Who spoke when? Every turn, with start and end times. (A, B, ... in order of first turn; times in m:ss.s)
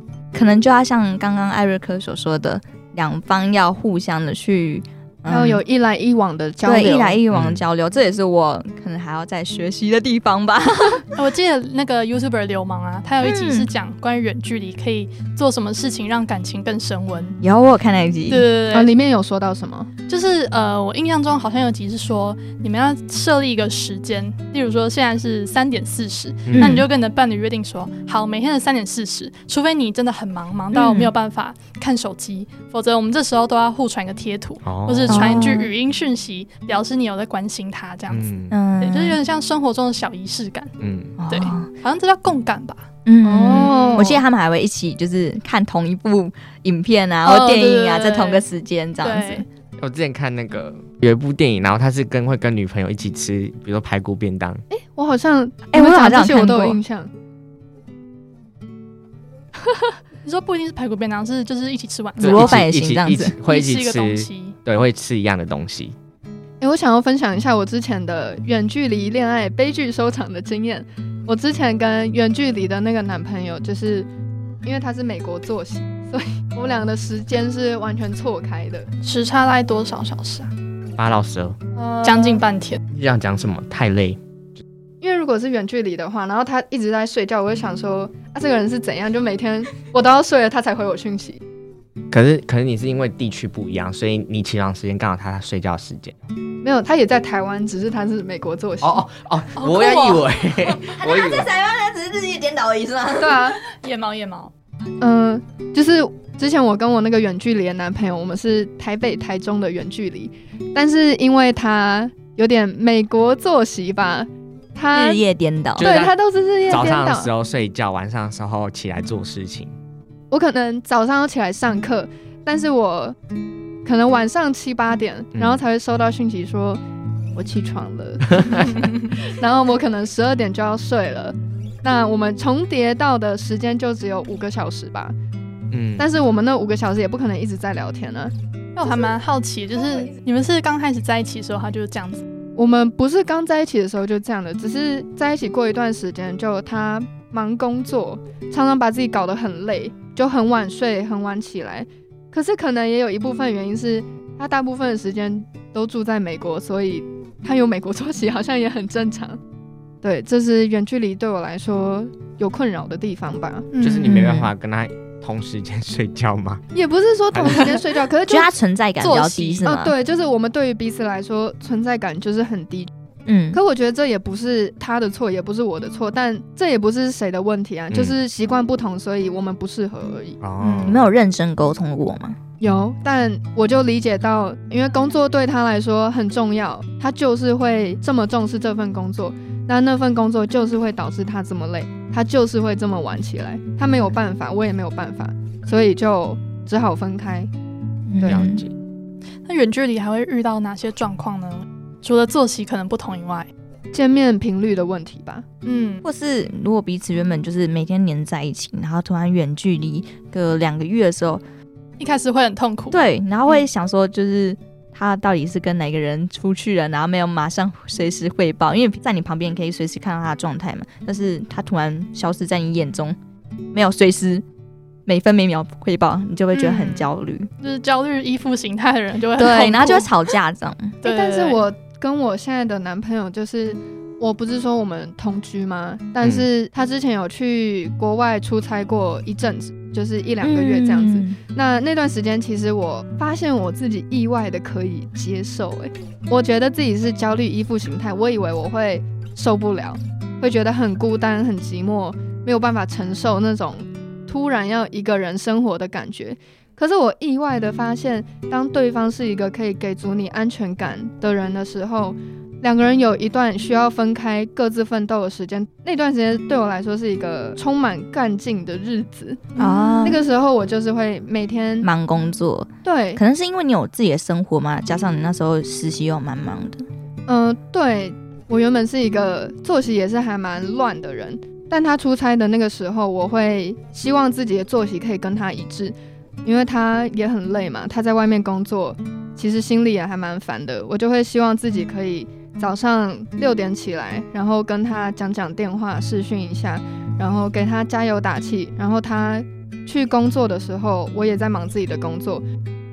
0:00.3-0:05.6 A
0:05.3-0:07.2 B
0:06.6-0:11.0 A
0:07.3-0:07.6 C
0:11.2-0:17.4 D
0:13.2-0:13.7 A
0:17.4-0:18.5 A
0:18.3-0:18.9 D
0:18.7-0:19.9 B
0:20.1-0:40.8 D
0:26.5-0:26.8 C
0:26.5-0:26.9 A
0:30.7-0:31.1 A
0:34.6-0:35.3 C
0:35.1-0:35.7 A
0:38.1-0:38.6 C
0:38.5-0:39.2 A
0:40.8-0:41.2 C
0:41.2-0:41.7 A
0:41.3-0:42.9 D
0:43.0-0:49.4 A
0:43.2-0:44.1 B
0:43.4-0:44.2 D
0:47.2-0:48.4 D
0:49.0-0:49.5 D
0:49.8-0:54.6 C
0:54.7-0:57.1 B
0:55.7-0:56.8 A
1:00.2-1:02.6 D
1:02.2-1:03.4 A
1:02.2-1:06.0 C
1:03.4-1:04.6 D
1:06.6-1:14.1 B
1:14.6-1:18.9 B
1:19.0-1:20.5 D
1:21.0-1:21.6 C
1:21.8-1:22.5 B
1:22.0-1:22.8 D
1:22.9-1:24.2 C
1:25.0-1:31.4 B
1:32.1-1:36.2 C
1:36.6-1:39.0 B
1:38.8-1:41.5 C
1:39.6-1:40.3 D
1:41.0-1:43.5 A
1:43.2-1:43.6 B
1:43.8-1:44.5 D
1:45.0-1:55.2 B
1:54.9-1:55.9 A
1:55.8-1:56.2 C
1:55.8-1:57.3 B
1:56.7-1:59.7 C
2:00.3-2:03.2 B
2:03.8-2:06.8 B
2:05.4-2:05.6 C
2:07.4-2:15.2 B
2:08.4-2:08.7 C
2:15.7-2:16.1 C
2:16.0-2:18.3 B
2:18.8-2:22.2 D
2:18.8-2:19.1 B
2:22.6-2:39.4 B
2:40.0-2:43.7 B
2:43.7-2:44.1 D
2:43.8-2:46.6 C
2:44.0-2:44.5 A
2:46.7-2:48.5 B
2:47.3-2:47.7 C
2:48.3-2:50.0 A
2:49.0-2:49.7 D
2:49.7-2:52.9 B
2:53.3-2:53.6 A
2:53.5-3:00.4 B
2:57.9-2:58.2 C
3:00.4-3:01.1 C
3:00.6-3:02.4 A
3:02.6-3:17.5 B
3:18.1-3:18.6 A
3:18.2-3:18.5 B
3:18.2-3:18.7 C
3:19.4-3:23.5 D
3:23.9-3:25.5 B
3:25.6-3:26.0 D
3:26.0-3:31.4 A
3:32.0-3:33.6 D
3:32.9-3:43.2 A
3:43.7-3:44.4 A
3:45.1-3:47.5 A
3:47.6-3:50.1 D
3:49.4-3:51.0 A
3:51.0-4:31.9 B
3:51.0-3:51.6 D
3:56.2-3:56.5 C
4:00.4-4:01.4 A
4:29.6-4:30.2 D
4:29.6-4:30.2 A
4:31.8-4:36.9 A
4:32.8-4:33.2 B
4:37.3-5:02.4 B